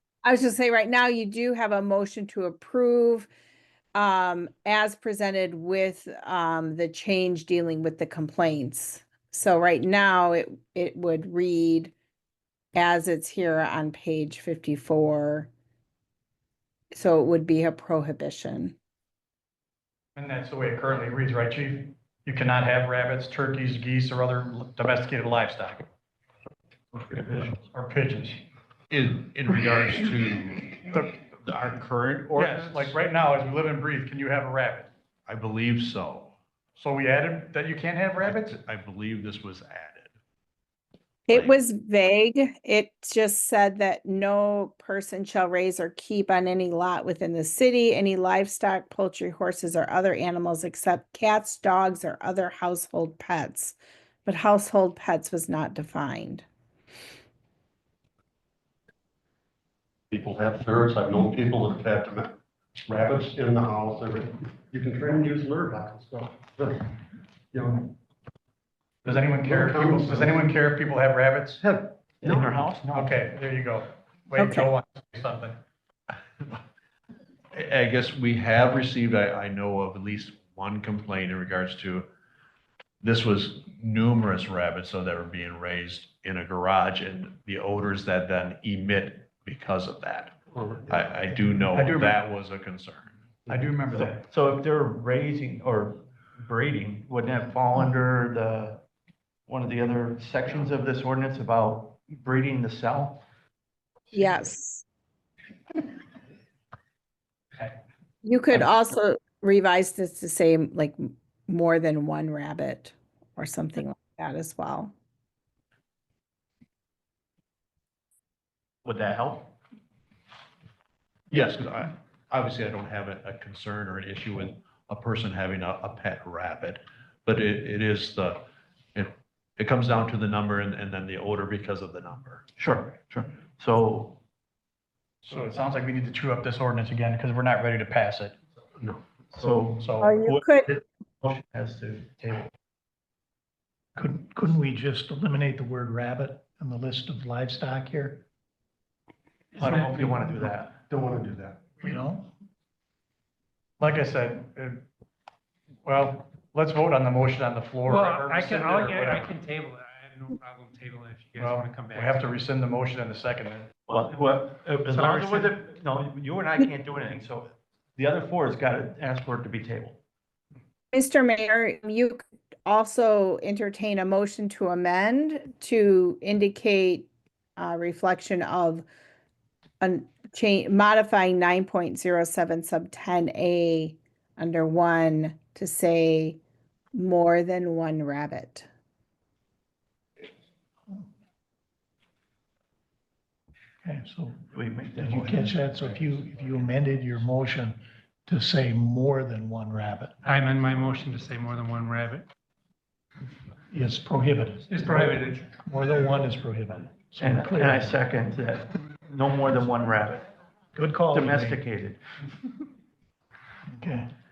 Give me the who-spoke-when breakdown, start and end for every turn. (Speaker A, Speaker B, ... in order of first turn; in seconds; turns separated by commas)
Speaker A: 0.2-3.3, Speaker A: 3.9-11.9, Speaker A: 12.7-15.5, Speaker A: 16.9-18.8, Speaker B: 20.1-25.9, Speaker C: 26.9-27.6, Speaker B: 27.7-28.4, Speaker D: 28.9-33.0, Speaker B: 32.4-34.9, Speaker D: 35.2-36.3, Speaker B: 36.8-38.5, Speaker D: 38.2-40.1, Speaker A: 41.3-56.4, Speaker D: 41.3-41.6, Speaker E: 60.1-67.0, Speaker E: 67.5-67.9, Speaker E: 69.0-70.5, Speaker B: 69.1-71.6, Speaker E: 71.6-72.5, Speaker C: 72.2-73.3, Speaker B: 72.9-75.5, Speaker A: 74.4-74.7, Speaker D: 77.5-82.1, Speaker D: 83.0-93.1, Speaker E: 90.5-90.9, Speaker B: 91.7-92.1, Speaker C: 93.5-98.8, Speaker B: 93.7-94.1, Speaker C: 99.5-103.2, Speaker A: 104.1-104.8, Speaker A: 108.2-114.9, Speaker C: 118.8-119.5, Speaker D: 121.3-128.4, Speaker D: 128.9-132.4, Speaker C: 132.6-134.2, Speaker B: 135.2-138.3, Speaker C: 139.3-142.5, Speaker A: 140.0-140.7, Speaker F: 143.9-148.2, Speaker C: 149.5-150.8, Speaker E: 150.9-151.7, Speaker F: 151.8-152.3, Speaker B: 153.8-154.8, Speaker B: 155.8-159.3, Speaker G: 157.9-162.4, Speaker B: 161.3-163.7, Speaker C: 163.9-170.0, Speaker G: 164.9-165.5, Speaker A: 170.9-178.8, Speaker A: 179.8-186.4, Speaker A: 186.9-188.7, Speaker F: 193.8-194.4, Speaker C: 194.5-195.6, Speaker F: 195.0-200.1, Speaker G: 200.2-202.2, Speaker F: 203.7-207.9, Speaker G: 204.7-205.4, Speaker C: 207.2-210.2, Speaker F: 210.7-211.6, Speaker C: 211.1-212.0, Speaker F: 213.7-214.1